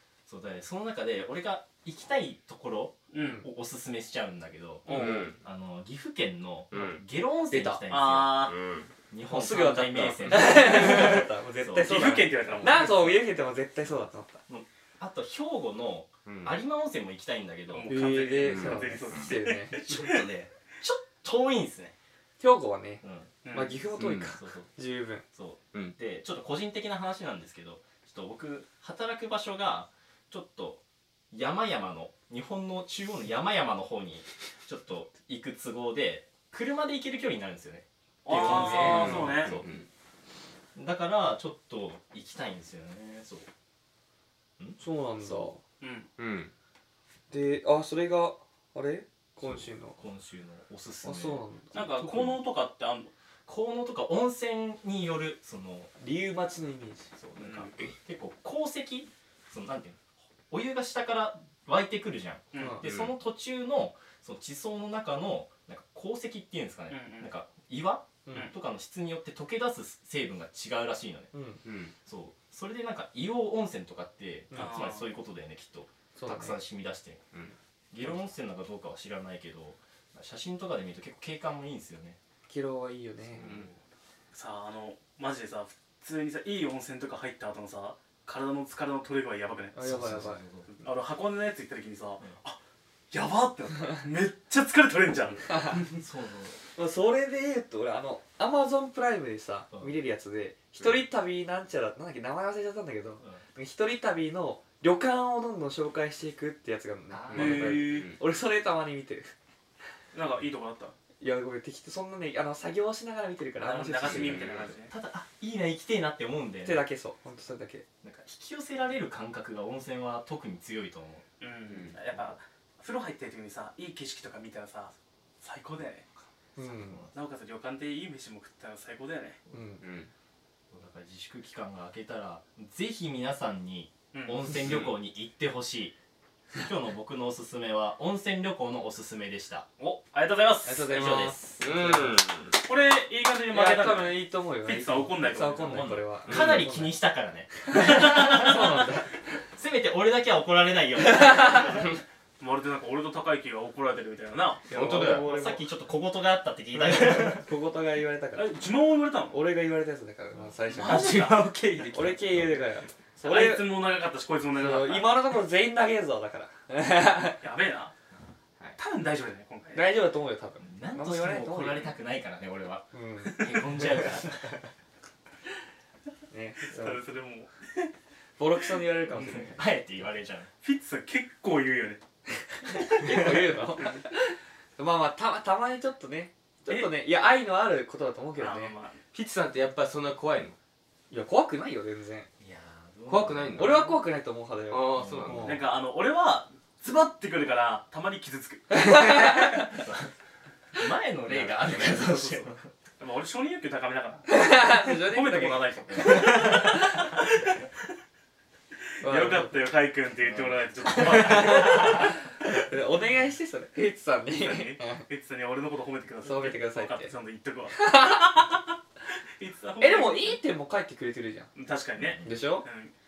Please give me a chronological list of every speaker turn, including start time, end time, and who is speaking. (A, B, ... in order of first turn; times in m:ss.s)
0:00.3-0:08.5 A
0:03.1-0:03.4 B
0:04.8-0:05.3 B
0:04.9-0:05.2 C
0:04.9-0:05.4 D
0:06.7-0:07.0 D
0:07.5-0:07.8 C
0:07.9-0:08.6 B
0:08.5-0:08.9 D
0:09.1-0:13.1 A
0:09.3-0:14.4 C
0:11.7-0:13.1 B
0:14.5-0:17.9 A
0:16.2-0:16.6 D
0:17.7-0:20.2 B
0:17.8-0:19.8 C
0:18.4-0:18.9 D
0:19.7-0:21.9 A
0:22.4-0:25.2 C
0:23.0-0:23.3 A
0:23.4-0:23.8 B
0:24.0-0:24.3 D
0:24.2-0:24.7 A
0:25.3-0:39.8 A
0:38.2-0:39.6 B
0:38.3-0:39.3 C
0:38.7-0:39.8 D
0:40.7-0:43.5 A
0:44.6-0:45.5 A
0:44.8-0:45.6 C
0:45.8-0:46.1 B
0:46.2-0:46.5 D
0:47.3-0:50.0 C
0:49.4-0:52.4 A
0:51.0-0:51.8 C
0:51.7-0:53.1 B
0:53.4-0:55.9 A
0:56.0-0:57.1 C
0:57.2-1:11.3 A
0:57.4-0:57.7 B
1:02.5-1:02.8 B
1:02.6-1:02.8 C
1:02.8-1:03.1 D
1:06.9-1:07.3 B
1:11.3-1:11.6 C
1:11.6-1:11.9 D
1:12.0-1:17.2 A
1:14.5-1:15.1 B
1:16.2-1:16.6 C
1:17.9-1:22.2 A
1:22.5-1:23.5 C
1:23.3-1:23.8 A
1:23.4-1:23.7 D
1:24.3-1:29.9 B
1:29.7-1:30.4 C
1:29.8-1:30.8 A
1:30.7-1:32.6 B
1:33.1-1:35.9 B
1:35.5-1:35.8 C
1:35.6-1:36.6 A
1:36.8-1:49.3 C
1:47.1-1:48.0 A
1:47.3-1:48.2 D
1:47.3-1:48.1 B
1:50.1-1:50.9 B
1:51.2-1:54.5 C
1:53.6-1:54.9 B
1:54.1-1:54.7 D
1:54.9-1:56.8 A
1:56.6-1:57.8 C
1:58.0-2:01.2 A
2:01.4-2:06.1 B
2:01.7-2:02.0 D
2:06.6-2:07.0 C
2:06.6-2:07.1 A
2:07.1-2:09.4 B
2:09.5-2:09.8 C
2:09.8-2:10.1 D
2:10.7-2:16.0 A
2:14.1-2:14.6 B
2:16.6-2:19.7 A
2:19.8-2:21.0 B
2:20.6-2:22.2 C
2:20.9-2:21.9 A
2:21.6-2:22.6 D
2:22.6-2:25.9 B
2:23.5-2:27.0 C
2:25.6-2:28.9 A
2:26.3-2:26.7 D
2:27.7-2:29.1 C
2:27.7-2:28.8 B
2:29.6-2:31.8 A
2:31.0-2:31.8 C
2:31.3-2:34.7 B
2:34.7-2:35.6 C
2:34.7-2:35.2 D
2:35.0-2:37.4 A
2:37.0-2:38.6 C
2:38.3-2:39.4 B
2:39.3-2:41.4 C
2:40.7-2:41.5 B
2:40.8-2:42.6 D
2:41.1-2:42.2 A
2:41.9-2:43.8 C
2:43.2-2:45.3 B
2:44.5-2:47.4 C
2:47.4-2:47.9 B
2:48.8-2:49.8 B
2:49.7-2:51.9 C
2:50.6-2:54.6 A
2:52.9-2:53.5 C
2:53.2-2:53.5 B
2:56.3-2:57.0 C
2:56.7-2:57.9 B
2:58.4-2:59.6 C
2:59.1-2:59.4 B
2:59.1-3:00.5 A
3:00.6-3:02.0 B
3:02.6-3:08.7 C
3:03.8-3:04.0 B
3:08.4-3:09.0 B
3:09.1-3:10.6 D
3:11.1-3:12.3 C
3:12.4-3:13.8 A
3:13.1-3:13.9 D
3:13.6-3:15.7 C
3:14.7-3:15.6 D
3:14.9-3:15.5 A
3:15.4-3:19.2 B
3:18.7-3:19.8 C
3:19.4-3:20.1 A
3:20.7-3:22.7 A
3:21.6-3:27.6 B
3:24.3-3:26.8 C
3:25.9-3:26.9 A
3:29.0-3:29.5 C
3:29.0-3:32.1 B
3:30.2-3:32.1 A
3:31.6-3:35.0 C
3:34.3-3:40.4 B
3:36.2-3:37.1 C
3:37.8-3:38.4 C
3:39.8-3:41.5 C
3:41.5-3:42.9 B
3:42.0-3:42.4 A
3:42.2-3:42.7 C